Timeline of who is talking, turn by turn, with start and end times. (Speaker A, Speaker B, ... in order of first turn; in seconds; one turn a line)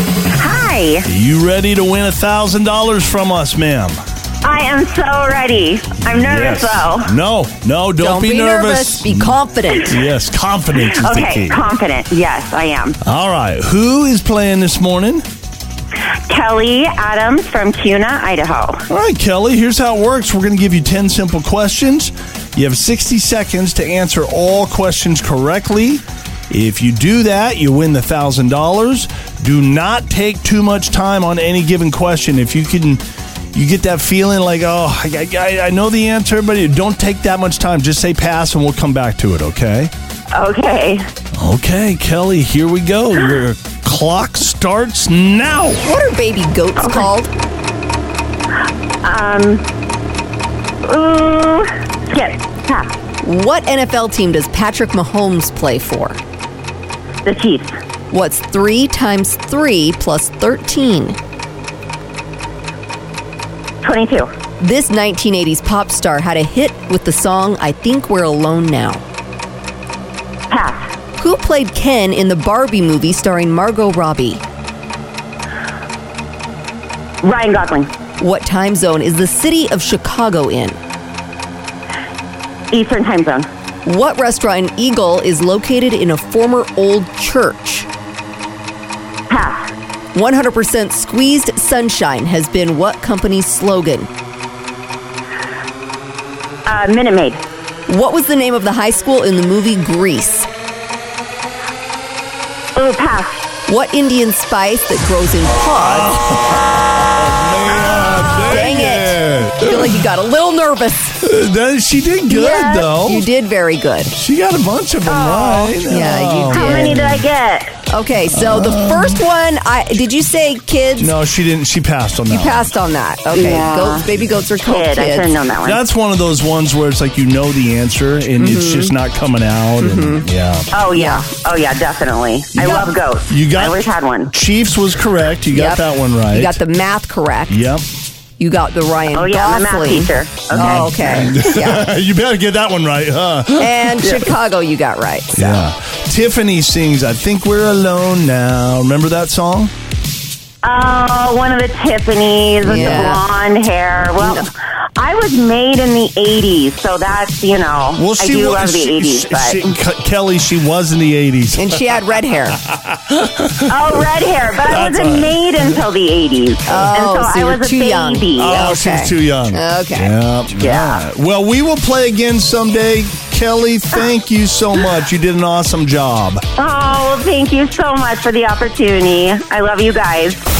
Speaker A: 0.3-1.1
Speaker B: 1.0-4.0
Speaker A: 4.4-7.1
Speaker B: 6.0-11.6
Speaker C: 8.0-10.1
Speaker A: 11.0-13.0
Speaker B: 13.0-15.2
Speaker A: 16.3-18.8
Speaker B: 18.9-33.0
Speaker B: 33.5-39.9
Speaker A: 40.3-41.0
Speaker B: 41.4-45.9
Speaker C: 45.8-47.3
Speaker A: 46.8-47.1
Speaker A: 49.0-49.6
Speaker A: 50.8-52.9
Speaker C: 53.2-56.2
Speaker A: 57.2-57.7
Speaker C: 58.1-61.2
Speaker A: 63.8-64.3
Speaker C: 64.6-69.1
Speaker A: 70.5-70.9
Speaker C: 71.2-74.4
Speaker A: 77.2-77.9
Speaker C: 78.2-80.8
Speaker A: 82.7-83.5
Speaker C: 83.8-87.9
Speaker A: 89.3-89.7
Speaker C: 90.1-94.1
Speaker A: 96.7-97.4
Speaker C: 97.9-100.5
Speaker A: 102.8-103.5
Speaker C: 103.7-106.2
Speaker B: 105.8-110.0
Speaker A: 107.7-108.7
Speaker C: 108.5-111.2
Speaker B: 111.2-113.2
Speaker C: 112.3-114.1
Speaker B: 114.1-117.2
Speaker A: 115.1-115.8
Speaker C: 115.8-117.2
Speaker A: 116.5-117.8
Speaker C: 117.9-121.2
Speaker B: 118.3-119.2
Speaker B: 121.0-122.7
Speaker C: 122.3-125.4
Speaker A: 123.3-124.1
Speaker A: 124.6-125.8
Speaker B: 125.6-130.7
Speaker C: 128.4-129.0
Speaker C: 129.8-130.3
Speaker A: 130.7-134.3
Speaker C: 130.9-131.2
Speaker B: 132.6-136.6
Speaker C: 135.5-137.7
Speaker B: 137.5-137.8
Speaker C: 138.4-141.9
Speaker A: 139.1-141.0
Speaker B: 140.5-144.2
Speaker C: 143.5-145.7
Speaker B: 145.3-149.7
Speaker A: 150.6-159.8
Speaker C: 152.6-153.2
Speaker C: 154.2-154.4
Speaker B: 157.9-161.8
Speaker C: 161.6-162.6
Speaker B: 162.9-163.8
Speaker A: 163.7-168.6
Speaker B: 164.6-165.4
Speaker C: 166.7-170.2
Speaker B: 168.4-176.4
Speaker A: 170.6-171.0
Speaker A: 176.6-180.4